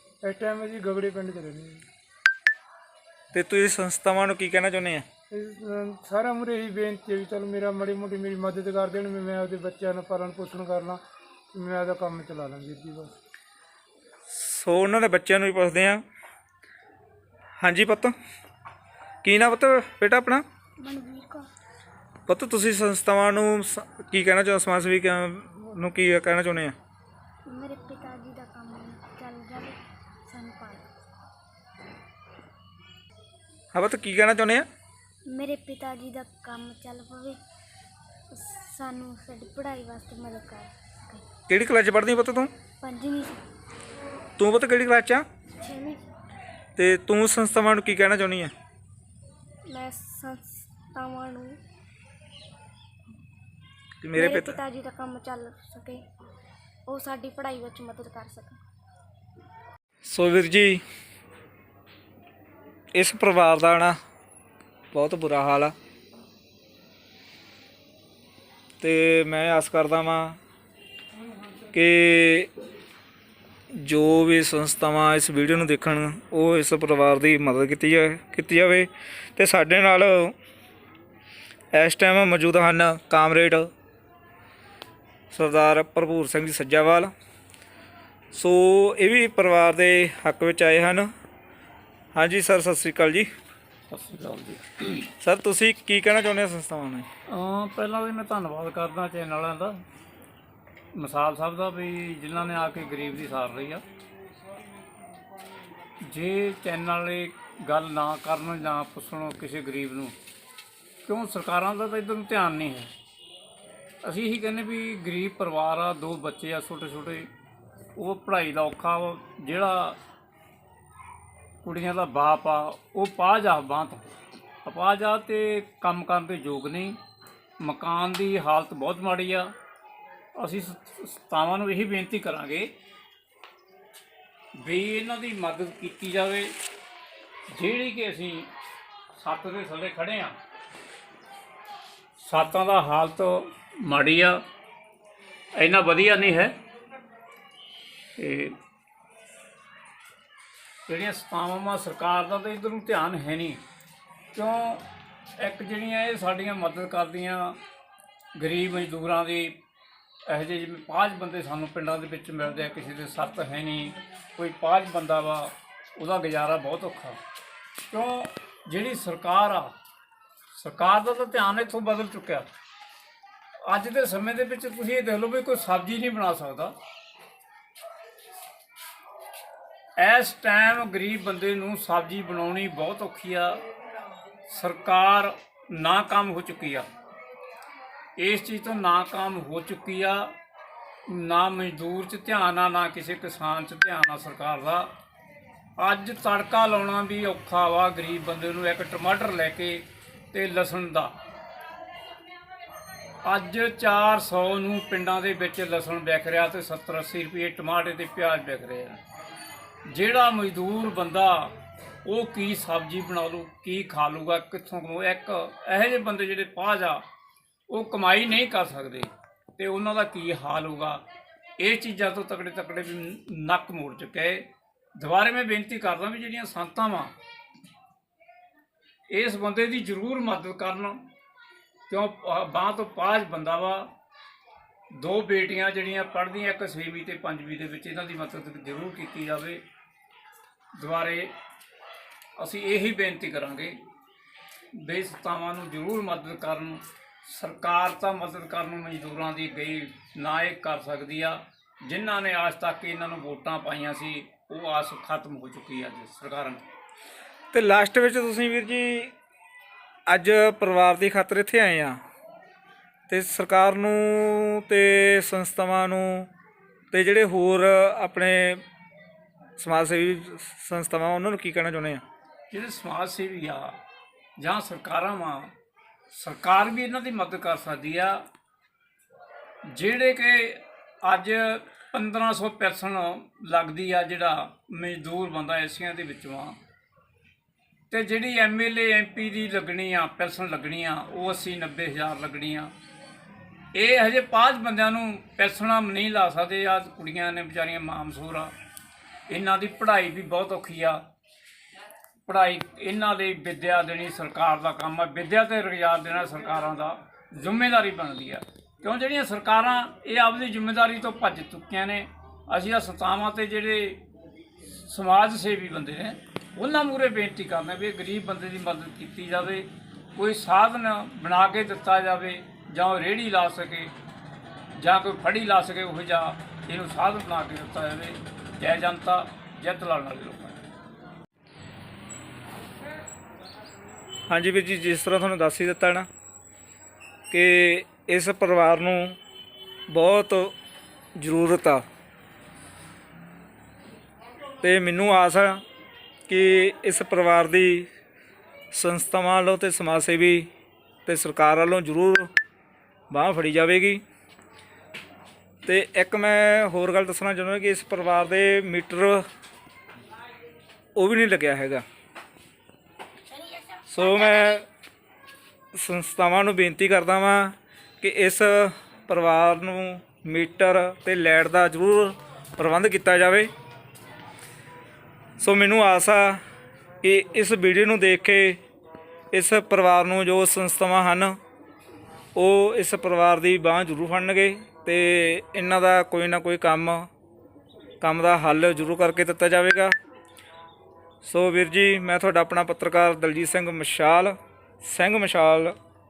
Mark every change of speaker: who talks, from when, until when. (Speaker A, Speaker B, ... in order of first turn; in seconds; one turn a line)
Speaker A: 0.2-1.8
Speaker B: 3.3-5.0
Speaker A: 5.3-11.0
Speaker A: 11.5-13.2
Speaker B: 14.3-16.0
Speaker B: 17.6-18.1
Speaker B: 19.2-20.4
Speaker C: 20.8-21.4
Speaker B: 22.3-26.7
Speaker C: 27.4-30.8
Speaker B: 33.7-34.7
Speaker C: 35.3-37.4
Speaker C: 38.3-41.2
Speaker B: 41.5-42.5
Speaker C: 42.8-43.4
Speaker B: 44.4-45.2
Speaker C: 45.6-46.0
Speaker B: 46.8-48.5
Speaker C: 49.7-51.6
Speaker B: 54.0-54.6
Speaker C: 54.1-56.0
Speaker C: 56.9-58.6
Speaker B: 60.0-60.8
Speaker B: 62.9-64.0
Speaker B: 64.9-65.7
Speaker B: 68.8-70.4
Speaker B: 71.7-72.5
Speaker B: 73.7-80.3
Speaker B: 81.7-83.7
Speaker B: 85.3-87.1
Speaker B: 88.3-91.1
Speaker B: 92.1-93.3
Speaker D: 93.9-95.1
Speaker B: 95.2-97.1
Speaker D: 97.3-99.8
Speaker D: 100.9-103.8
Speaker D: 106.0-110.1
Speaker D: 111.0-112.9
Speaker D: 114.0-117.3
Speaker D: 118.0-120.0
Speaker D: 121.6-127.0
Speaker D: 127.6-129.5
Speaker D: 130.3-132.7
Speaker D: 134.6-136.5
Speaker D: 137.5-138.5
Speaker D: 139.2-140.3
Speaker D: 142.2-144.4
Speaker D: 145.6-146.5
Speaker D: 148.2-148.6
Speaker D: 150.9-153.6
Speaker D: 154.3-154.8
Speaker D: 155.4-157.6
Speaker D: 158.3-159.6
Speaker D: 160.3-167.2
Speaker D: 167.9-169.7
Speaker D: 170.5-172.5
Speaker D: 173.6-176.7
Speaker D: 180.0-183.6
Speaker D: 184.5-186.9
Speaker D: 188.2-190.3
Speaker D: 191.1-194.9
Speaker D: 195.8-201.1
Speaker D: 203.2-209.0
Speaker D: 209.8-217.0
Speaker D: 217.7-221.0
Speaker D: 221.6-227.1
Speaker D: 229.1-231.0
Speaker D: 231.9-233.9
Speaker D: 234.9-239.6
Speaker D: 240.8-241.3
Speaker D: 242.4-243.8
Speaker D: 244.7-256.6
Speaker B: 257.5-259.1
Speaker B: 260.1-262.0
Speaker B: 263.1-266.3
Speaker B: 266.9-268.6
Speaker B: 269.6-272.0
Speaker D: 272.5-273.8
Speaker D: 274.4-275.5
Speaker D: 276.1-278.2
Speaker D: 279.7-286.6
Speaker D: 287.9-292.7
Speaker D: 293.7-298.5
Speaker D: 299.3-301.0
Speaker D: 302.2-314.0
Speaker D: 314.8-323.9
Speaker D: 324.8-330.6
Speaker B: 334.3-336.1
Speaker B: 337.3-339.2
Speaker B: 339.9-340.5
Speaker B: 341.2-341.8
Speaker B: 344.6-345.6
Speaker B: 346.3-347.9
Speaker B: 348.7-350.5
Speaker B: 351.0-352.3
Speaker B: 353.1-354.0
Speaker B: 355.6-359.2
Speaker B: 360.9-361.8
Speaker B: 363.9-364.7
Speaker B: 365.7-373.5
Speaker B: 375.4-376.4
Speaker B: 377.0-378.6
Speaker B: 379.3-381.4
Speaker B: 382.3-387.1
Speaker B: 388.0-389.9
Speaker B: 391.2-395.8